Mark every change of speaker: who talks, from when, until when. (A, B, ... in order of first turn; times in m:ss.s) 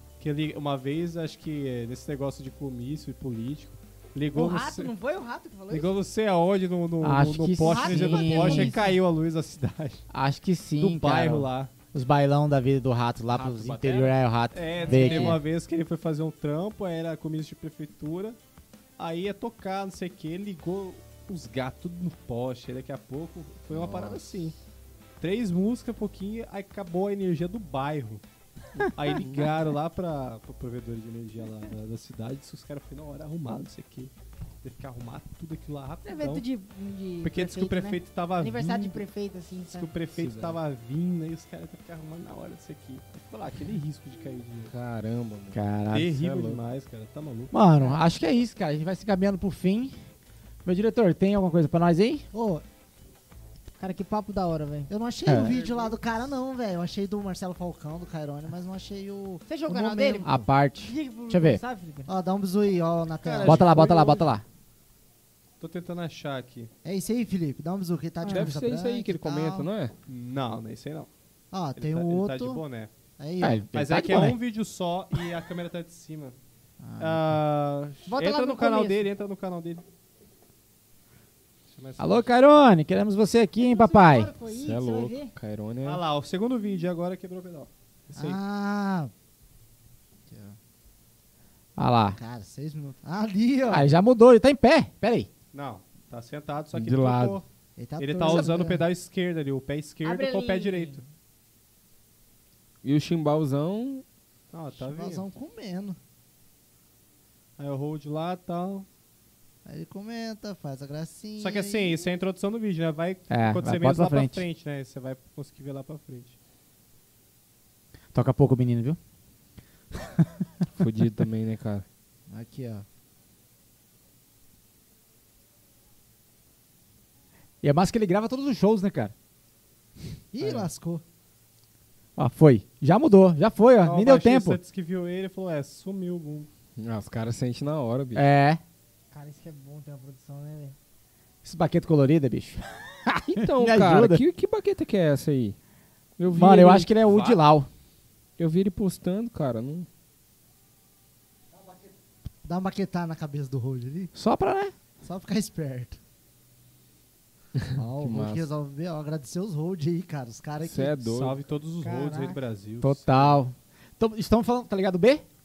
0:00.2-0:04.9 A
0:04.3-0:05.9 B
0:05.7-0:10.0 A
0:07.0-0:08.8 C
0:07.6-0:09.0 B
0:10.1-0:15.4 C
0:10.8-0:11.7 A
0:13.3-0:14.1 D
0:14.5-0:18.4 A
0:14.8-0:15.4 B
0:19.0-0:24.5 A
0:23.7-0:24.3 D
0:25.2-0:28.2 A
0:28.8-0:29.5 D
0:28.9-0:34.1 A
0:34.6-0:36.4 A
0:36.0-0:39.9 B
0:37.2-0:39.0 A
0:39.7-0:44.7 A
0:40.2-0:40.6 D
0:44.7-0:45.6 D
0:45.5-0:46.2 C
0:45.9-0:47.5 A
0:46.2-0:46.6 D
0:47.5-0:49.9 C
0:50.6-0:52.2 C
0:52.3-0:52.6 E
0:53.8-0:54.9 B
0:54.9-1:00.5 E
0:55.2-0:55.5 C
0:55.4-0:56.0 A
0:59.5-1:02.1 B
1:00.2-1:01.6 C
1:02.1-1:04.2 E
1:03.2-1:04.3 A
1:03.4-1:04.4 C
1:05.6-1:06.7 A
1:06.8-1:09.7 E
1:08.2-1:08.5 B
1:08.3-1:09.9 D
1:10.1-1:11.1 A
1:11.5-1:12.6 E
1:11.7-1:12.9 A
1:13.2-1:13.6 E
1:13.4-1:14.4 C
1:13.7-1:16.4 A
1:16.8-1:17.3 E
1:17.0-1:19.8 A
1:18.1-1:19.1 B
1:21.7-1:22.3 A
1:22.0-1:24.3 C
1:23.6-1:25.3 B
1:24.5-1:26.0 D
1:25.8-1:28.4 A
1:28.1-1:29.1 E
1:30.3-1:30.6 E
1:31.8-1:32.2 C
1:32.1-1:33.9 E
1:33.7-1:35.3 C
1:35.5-1:37.4 A
1:36.7-1:37.3 C
1:37.8-1:38.8 E
1:38.0-1:41.0 A
1:40.0-1:41.0 B
1:42.8-1:44.0 D
1:44.5-1:45.2 A
1:44.8-1:46.0 E
1:47.6-1:48.9 A
1:49.6-1:52.0 E
1:51.4-1:56.4 A
1:53.3-1:54.4 C
1:58.1-1:59.0 C
2:00.8-2:01.8 D
2:02.3-2:02.8 E
2:07.6-2:09.1 C
2:10.3-2:11.0 E
2:12.2-2:14.6 C
2:13.8-2:16.5 A
2:16.8-2:18.2 D
2:18.1-2:18.6 C
2:19.1-2:20.8 B
2:21.4-2:24.2 C
2:23.3-2:25.6 D
2:26.2-2:26.9 D
2:26.3-2:27.7 C
2:27.0-2:27.4 A
2:28.4-2:29.9 D
2:31.5-2:31.9 E
2:32.4-2:34.1 E
2:34.1-2:34.7 C
2:35.0-2:36.0 E
2:37.6-2:38.4 D
2:37.7-2:41.0 E
2:40.6-2:41.4 D
2:41.1-2:43.4 A
2:41.8-2:42.4 B
2:42.8-2:45.2 C